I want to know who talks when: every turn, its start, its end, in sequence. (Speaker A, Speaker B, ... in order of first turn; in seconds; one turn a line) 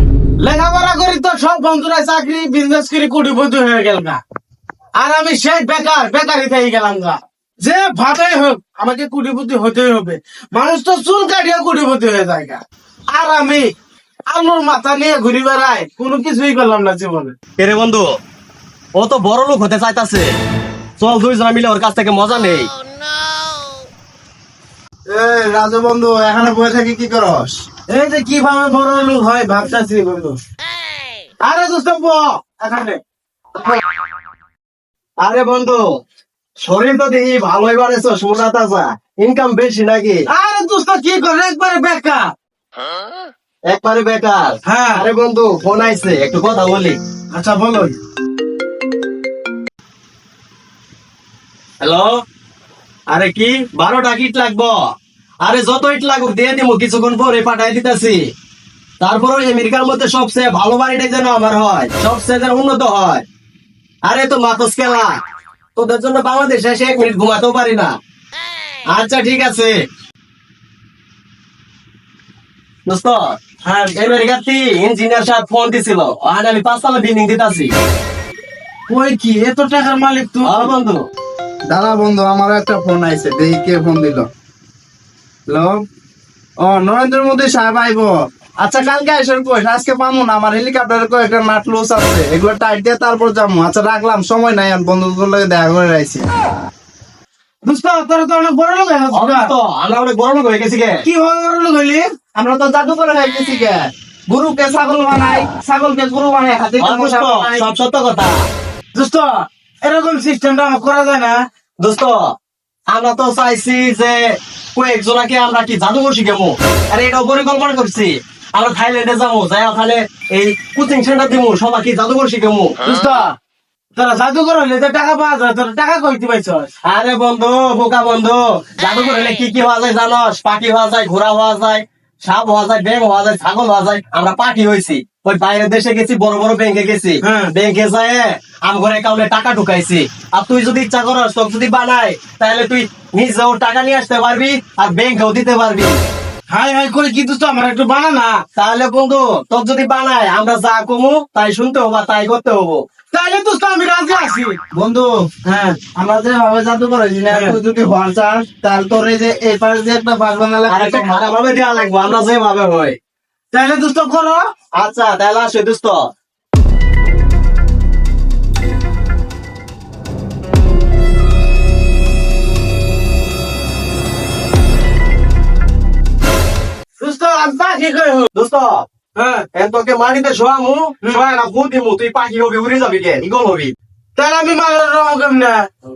Speaker A: 0.4-4.2
Speaker A: 5.0-12.6
Speaker A: 13.1-13.7
Speaker A: 14.3-17.4
Speaker B: 17.6-18.1
Speaker B: 18.9-20.3
Speaker B: 21.0-22.7
Speaker C: 25.1-27.6
Speaker A: 27.9-30.4
Speaker A: 31.4-33.0
Speaker B: 35.2-35.9
Speaker B: 36.6-40.2
Speaker A: 40.3-42.3
Speaker B: 43.7-47.0
Speaker A: 44.6-45.0
Speaker A: 47.3-48.0
Speaker B: 51.8-52.2
Speaker B: 53.1-54.8
Speaker B: 55.4-58.2
Speaker B: 59.0-63.2
Speaker B: 64.0-65.2
Speaker B: 65.8-67.9
Speaker B: 68.9-69.7
Speaker B: 72.9-73.4
Speaker A: 73.6-74.2
Speaker B: 74.0-77.7
Speaker A: 78.9-80.7
Speaker B: 80.4-81.0
Speaker C: 81.7-84.3
Speaker C: 85.5-85.8
Speaker C: 86.6-96.2
Speaker A: 97.6-99.5
Speaker B: 99.1-101.0
Speaker A: 101.0-102.0
Speaker C: 102.3-107.6
Speaker B: 106.8-108.4
Speaker A: 108.9-111.4
Speaker B: 111.8-112.3
Speaker B: 112.9-122.8
Speaker A: 122.8-123.3
Speaker A: 124.0-126.7
Speaker B: 126.8-146.0
Speaker A: 137.2-137.5
Speaker A: 146.5-148.4
Speaker B: 148.6-152.8
Speaker A: 153.1-154.6
Speaker C: 154.7-155.1
Speaker A: 155.5-155.8
Speaker C: 155.9-161.3
Speaker A: 157.3-157.6
Speaker B: 160.7-163.0
Speaker A: 163.5-164.4
Speaker B: 164.8-166.1
Speaker A: 177.0-178.3
Speaker B: 178.3-178.9
Speaker A: 179.2-179.4
Speaker B: 179.5-183.7
Speaker A: 184.2-185.7